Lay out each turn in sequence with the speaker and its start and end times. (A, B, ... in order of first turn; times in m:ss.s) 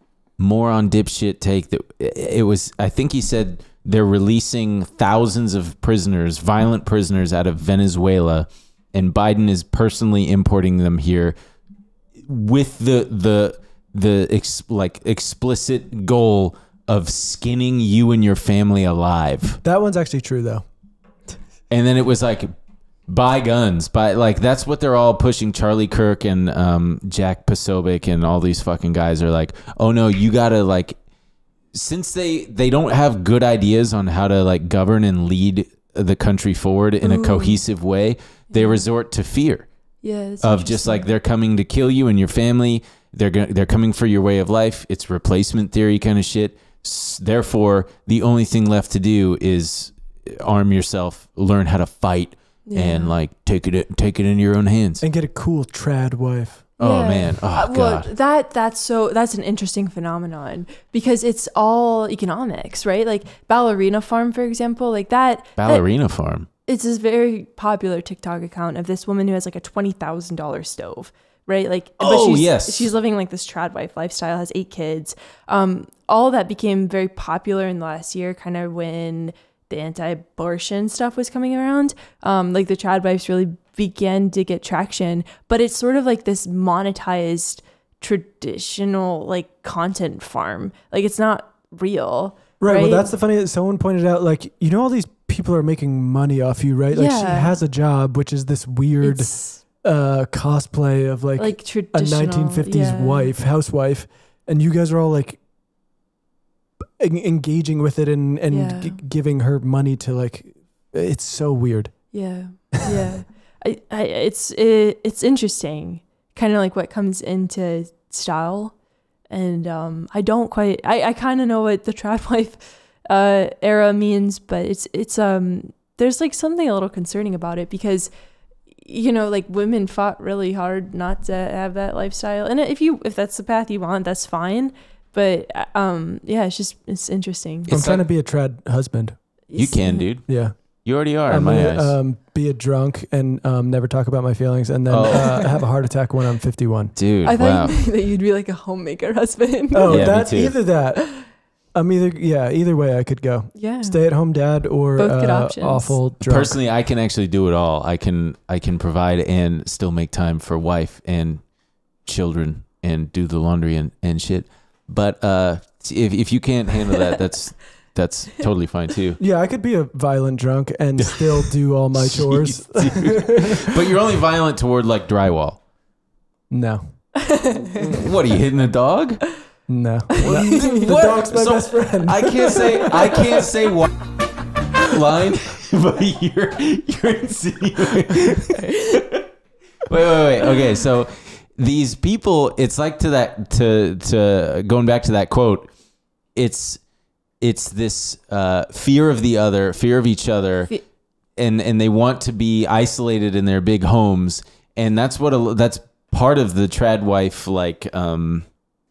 0:00.4-0:11.3 A
0:12.2-0:19.6 A
0:19.6-0:20.6 B
0:21.7-0:22.5 A
0:23.1-0:31.0 A
0:31.7-0:39.7 A
0:37.0-0:37.6 C
0:38.5-0:38.8 C
0:40.0-0:41.0 C
0:40.4-0:55.0 A
0:52.6-0:53.1 C
0:55.0-0:56.7 B
0:56.8-0:58.1 A
0:56.8-1:05.8 C
1:05.6-1:06.5 A
1:06.6-1:33.1 C
1:12.0-1:12.9 A
1:32.6-1:45.4 B
1:36.9-1:37.5 C
1:39.0-1:39.6 C
1:41.4-1:43.3 C
1:47.0-1:52.1 B
1:48.5-1:49.0 C
1:52.1-1:58.7 C
1:59.3-2:08.1 C
2:08.8-2:17.8 C
2:17.7-2:18.0 A
2:17.7-2:19.2 B
2:19.5-2:20.1 C
2:19.5-2:22.0 A
2:20.2-2:20.6 B
2:21.2-2:26.9 B
2:24.9-2:25.5 A
2:27.0-2:27.8 A
2:27.2-2:30.2 C
2:29.7-2:36.6 B
2:29.9-2:30.6 A
2:33.5-2:34.0 C
2:35.0-2:36.0 C
2:36.2-2:41.4 A
2:42.0-2:49.2 A
2:49.2-2:53.6 B
2:51.0-2:55.6 A
2:56.5-2:57.2 B
2:57.2-2:58.0 C
2:57.8-2:59.3 A
2:59.7-3:02.7 B
3:00.2-3:03.9 A
3:00.2-3:00.9 C
3:04.8-3:09.2 A
3:08.6-3:09.0 C
3:09.8-3:15.7 A
3:16.3-3:16.8 A
3:17.4-3:20.7 A
3:21.4-3:28.4 A